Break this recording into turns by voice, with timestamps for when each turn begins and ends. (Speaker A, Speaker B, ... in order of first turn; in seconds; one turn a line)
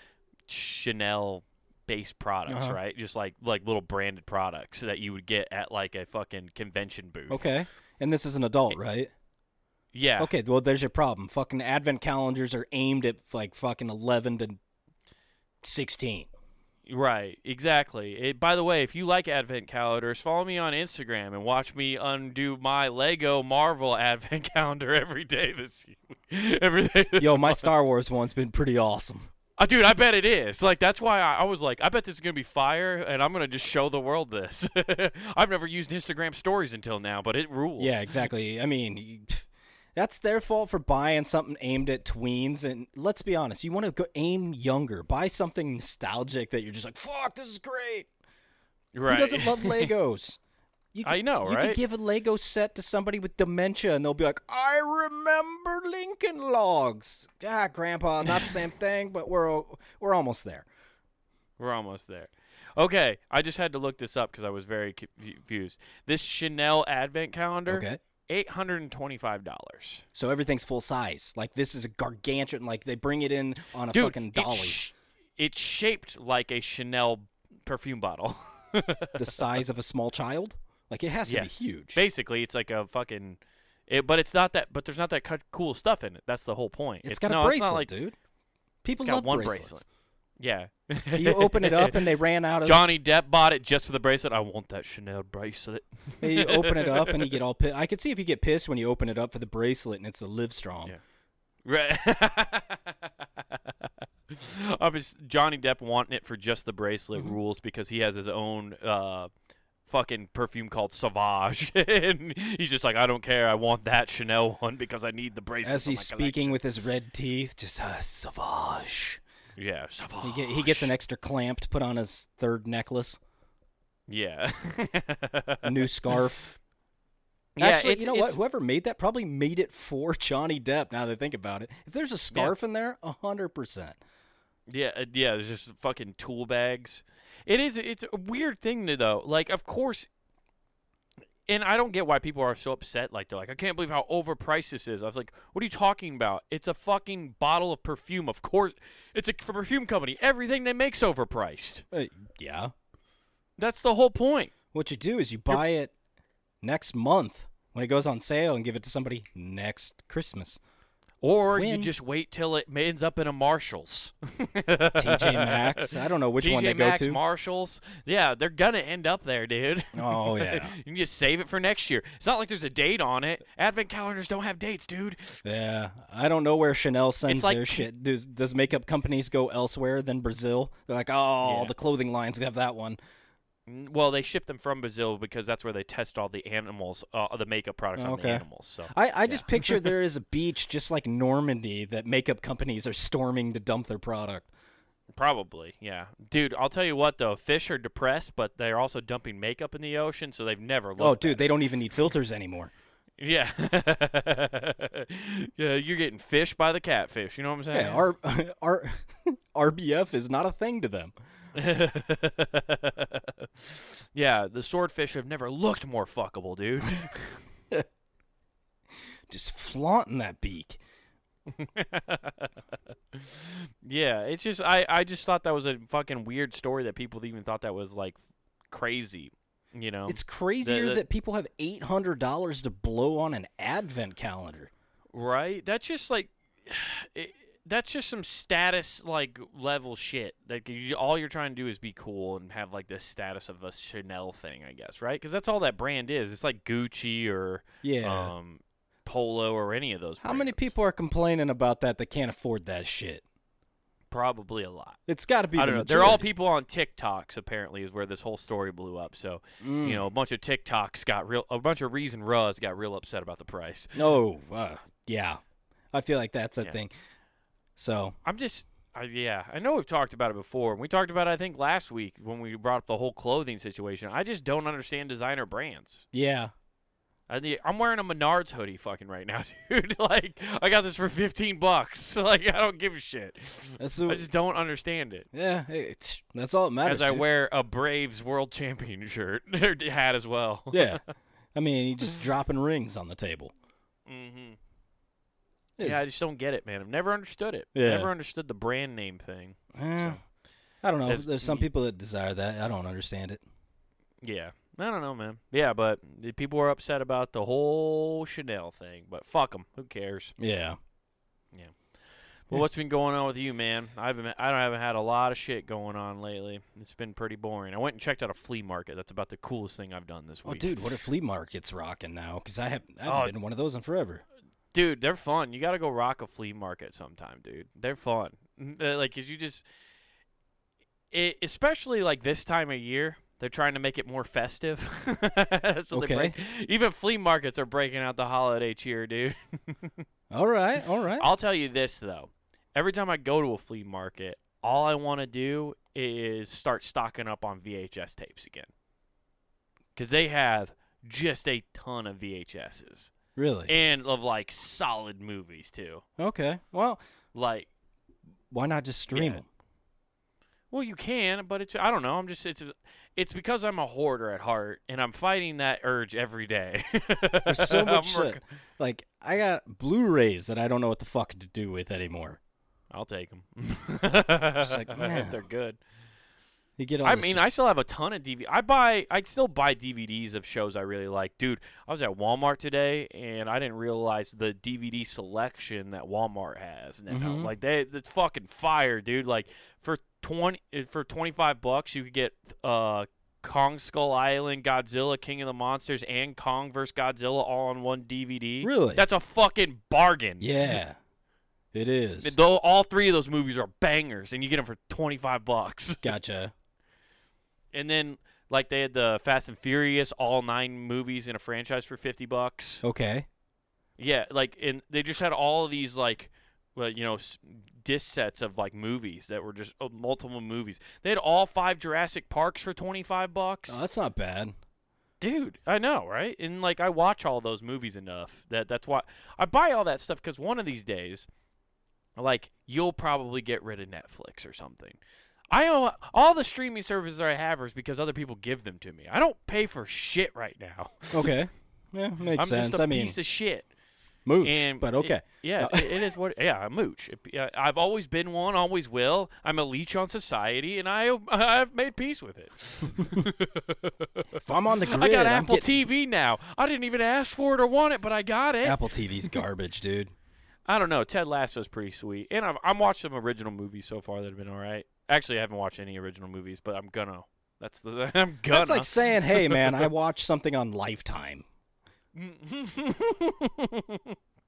Speaker A: 0.5-7.4
Speaker B: 2.5-2.8
Speaker B: 7.3-9.1
Speaker A: 9.9-10.3
Speaker B: 10.2-14.6
Speaker B: 15.6-16.3
Speaker A: 16.9-27.7
Speaker B: 27.2-29.2
Speaker A: 29.6-38.0
Speaker B: 37.8-48.1
Speaker A: 48.9-49.9
Speaker B: 49.1-50.4
Speaker B: 50.9-60.7
Speaker A: 51.0-51.8
Speaker A: 58.3-58.5
Speaker A: 61.6-70.0
Speaker B: 67.7-68.0
Speaker B: 70.1-74.8
Speaker A: 73.9-79.6
Speaker B: 79.2-82.0
Speaker A: 81.2-87.9
Speaker B: 87.0-88.1
Speaker B: 88.8-89.8
Speaker A: 89.0-89.8
Speaker A: 90.4-92.1
Speaker B: 91.1-92.8
Speaker A: 92.6-97.4
Speaker B: 96.2-100.9
Speaker A: 101.6-109.3
Speaker A: 109.9-116.6
Speaker B: 115.6-119.2
Speaker A: 119.6-120.9
Speaker B: 120.2-123.2
Speaker A: 124.1-126.2
Speaker B: 125.6-126.5
Speaker A: 127.5-128.4
Speaker B: 127.6-134.0
Speaker A: 134.7-140.1
Speaker A: 141.5-151.8
Speaker B: 151.9-152.7
Speaker A: 153.6-154.5
Speaker B: 154.7-155.9
Speaker B: 156.6-160.6
Speaker A: 161.2-175.4
Speaker B: 161.5-161.9
Speaker B: 165.0-167.2
Speaker B: 169.9-170.8
Speaker B: 175.4-183.0
Speaker A: 177.3-177.9
Speaker A: 181.4-181.7
Speaker A: 183.7-189.9
Speaker B: 187.9-194.5
Speaker A: 195.1-201.6
Speaker B: 201.0-202.7
Speaker A: 203.2-208.0
Speaker B: 207.7-211.1
Speaker A: 211.5-217.4
Speaker B: 219.3-220.8
Speaker A: 221.5-222.5
Speaker A: 223.1-228.2
Speaker A: 228.7-231.0
Speaker B: 230.1-234.7
Speaker A: 235.1-250.7
Speaker B: 247.8-248.3
Speaker B: 250.2-253.2
Speaker A: 254.1-255.0
Speaker B: 255.1-256.2
Speaker A: 255.6-264.0
Speaker B: 259.6-260.0
Speaker B: 263.9-265.4
Speaker B: 265.9-266.9
Speaker B: 267.8-268.1
Speaker A: 268.2-276.0
Speaker B: 276.1-276.5
Speaker A: 277.3-285.3
Speaker B: 283.8-284.3
Speaker B: 285.3-287.2
Speaker A: 286.8-291.0
Speaker B: 290.7-291.0
Speaker B: 291.5-293.5
Speaker A: 294.1-294.6
Speaker A: 295.8-300.2
Speaker B: 297.7-298.1
Speaker B: 299.8-300.2
Speaker B: 300.8-303.4
Speaker A: 301.1-301.7
Speaker A: 304.2-310.3
Speaker B: 310.4-310.8
Speaker A: 312.5-321.0
Speaker B: 320.4-324.2
Speaker A: 323.0-323.3
Speaker A: 324.7-329.6
Speaker A: 331.1-340.0
Speaker B: 335.9-336.3
Speaker B: 340.3-341.2
Speaker A: 341.2-348.7
Speaker A: 349.9-353.1
Speaker B: 353.4-353.7
Speaker A: 353.7-356.0
Speaker B: 356.2-357.0
Speaker A: 357.3-357.7
Speaker B: 358.5-359.4
Speaker A: 359.1-359.4
Speaker A: 360.7-368.4
Speaker B: 367.5-372.4
Speaker A: 372.9-375.8
Speaker B: 374.6-375.4
Speaker B: 376.8-377.4
Speaker A: 377.0-400.8
Speaker B: 387.1-387.5
Speaker B: 398.6-399.0
Speaker B: 400.4-401.0
Speaker B: 401.7-402.3
Speaker A: 402.2-406.1
Speaker B: 406.0-406.5
Speaker A: 407.7-412.8
Speaker B: 412.8-413.3
Speaker A: 414.0-423.8
Speaker B: 423.7-424.5
Speaker A: 425.2-431.3
Speaker A: 432.1-435.0
Speaker A: 435.5-441.4
Speaker B: 441.1-443.1
Speaker A: 442.4-443.7
Speaker B: 444.2-446.1
Speaker A: 444.4-459.4
Speaker B: 454.4-455.7
Speaker B: 458.6-460.1
Speaker A: 460.7-469.9
Speaker B: 468.5-471.4
Speaker A: 472.1-474.1